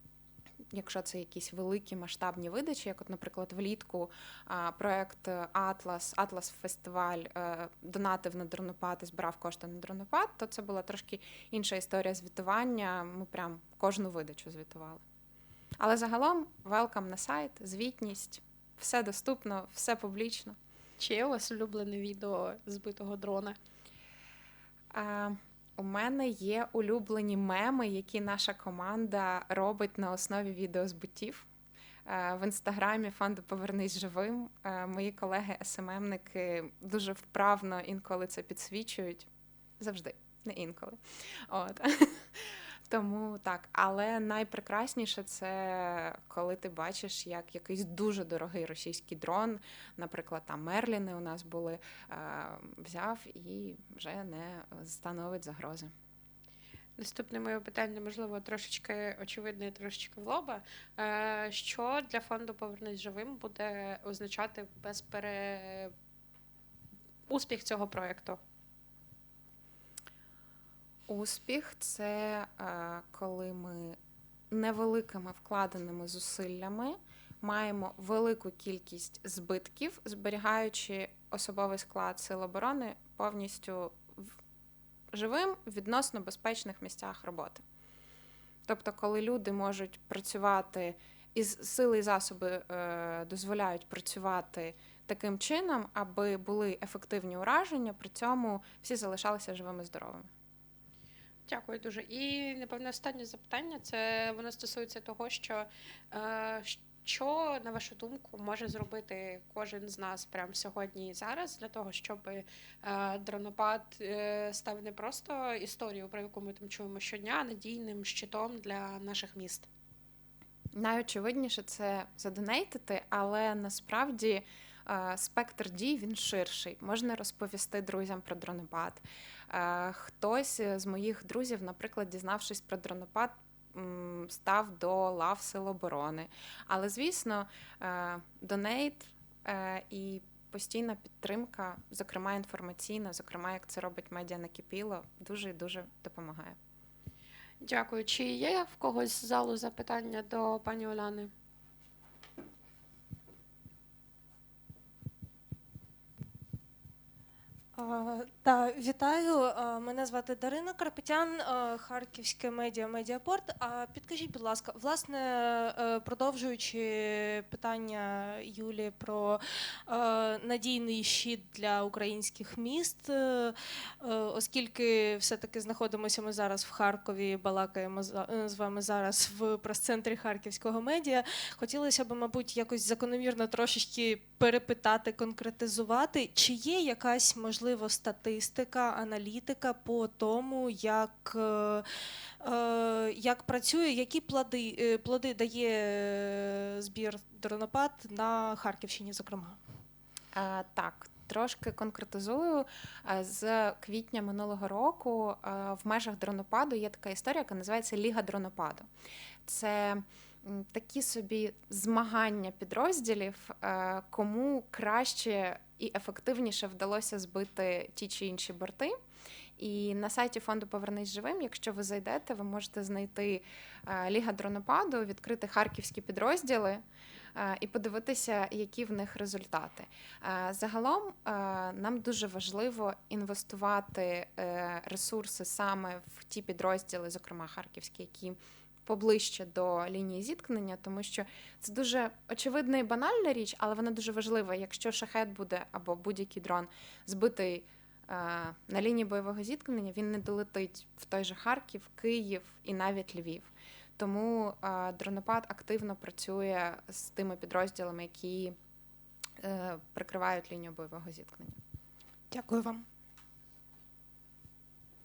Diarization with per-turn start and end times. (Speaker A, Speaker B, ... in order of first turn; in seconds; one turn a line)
Speaker A: 0.7-15.0
Speaker A: 15.8-20.6
Speaker B: 21.0-23.6
Speaker A: 24.9-31.5
Speaker A: 32.1-39.3
Speaker A: 39.8-55.9
Speaker B: 57.0-65.9
Speaker B: 67.3-68.4
Speaker A: 71.1-74.0
Speaker A: 74.5-84.3
Speaker A: 85.1-87.6
Speaker A: 88.7-100.3
Speaker B: 101.5-119.7
Speaker A: 120.8-146.6
Speaker B: 147.6-151.3
Speaker C: 157.8-191.9
Speaker C: 192.4-199.6
Speaker A: 200.3-208.9
Speaker A: 209.4-218.9
Speaker A: 219.6-226.8
Speaker A: 227.3-258.6
Speaker A: 259.4-261.6
Speaker C: 262.3-262.8